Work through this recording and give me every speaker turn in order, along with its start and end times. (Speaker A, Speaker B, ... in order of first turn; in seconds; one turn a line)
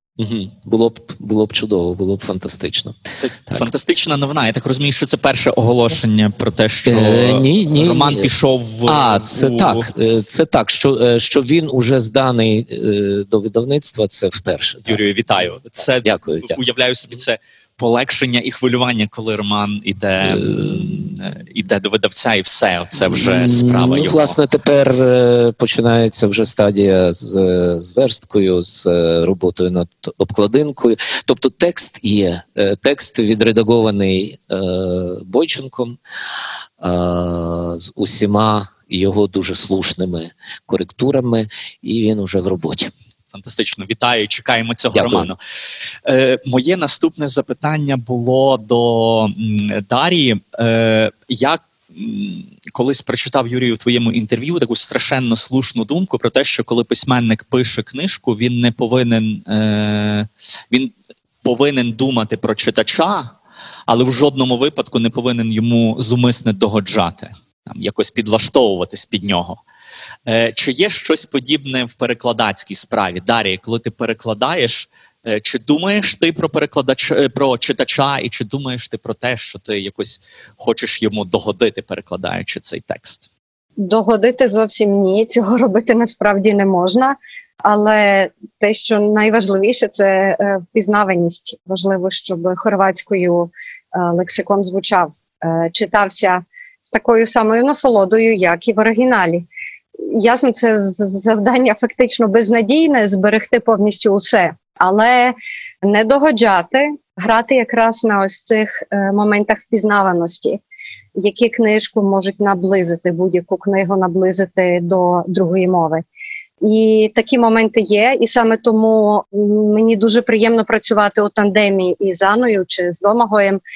Speaker A: 0.2-3.7
Speaker B: 3.1-9.9
Speaker A: 6.9-8.3
Speaker A: 8.9-15.0
Speaker B: 14.9-24.4
Speaker A: 16.0-16.6
Speaker A: 20.2-20.9
Speaker A: 23.0-36.0
Speaker A: 36.8-42.9
Speaker B: 43.3-45.4
Speaker A: 44.9-45.3
Speaker B: 46.0-63.3
Speaker B: 63.9-69.6
Speaker B: 70.3-83.3
Speaker C: 83.8-99.5
Speaker C: 100.0-110.6
Speaker C: 111.2-116.0
Speaker C: 116.6-123.6